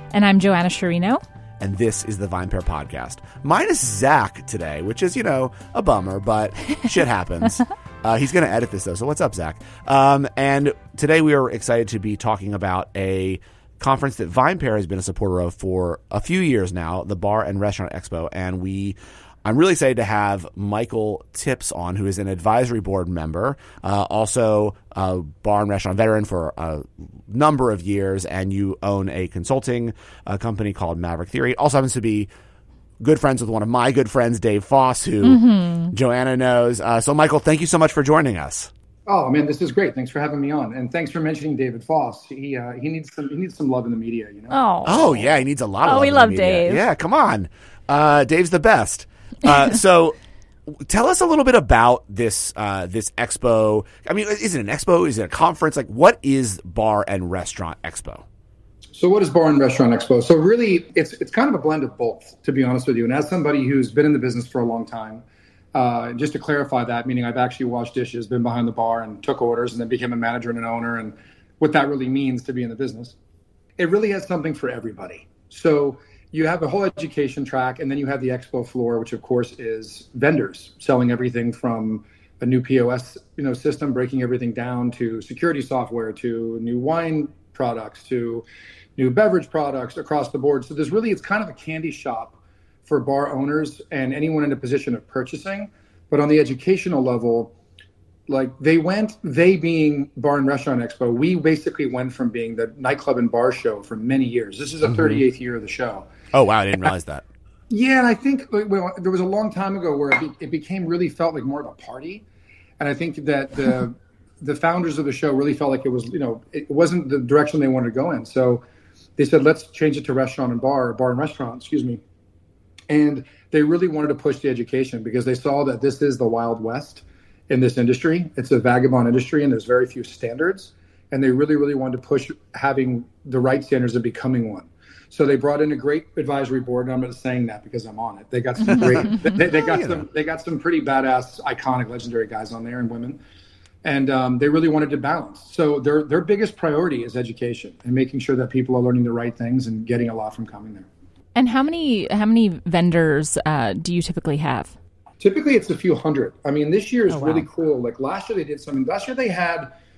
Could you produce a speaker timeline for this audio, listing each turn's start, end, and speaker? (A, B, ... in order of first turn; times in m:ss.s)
0:00.1-0:01.2 A
0:01.6-0:32.3 B
0:33.0-0:38.7 B
0:35.2-0:35.9 A
0:39.1-0:44.6 C
0:44.5-0:46.8 A
0:44.8-0:58.2 B
0:58.9-1:05.2 C
1:05.7-1:13.2 C
1:13.8-1:28.4 C
1:29.0-1:37.5 C
1:38.3-1:46.1 C
1:44.8-1:45.2 B
1:46.3-1:47.2 B
1:47.7-1:52.2 C
1:52.8-1:58.6 C
1:59.2-2:02.0 C
2:02.9-2:23.2 C
2:18.7-2:20.0 B
2:23.8-2:30.9 C
2:31.3-2:34.7 A
2:35.2-2:39.7 C
2:37.1-2:37.4 A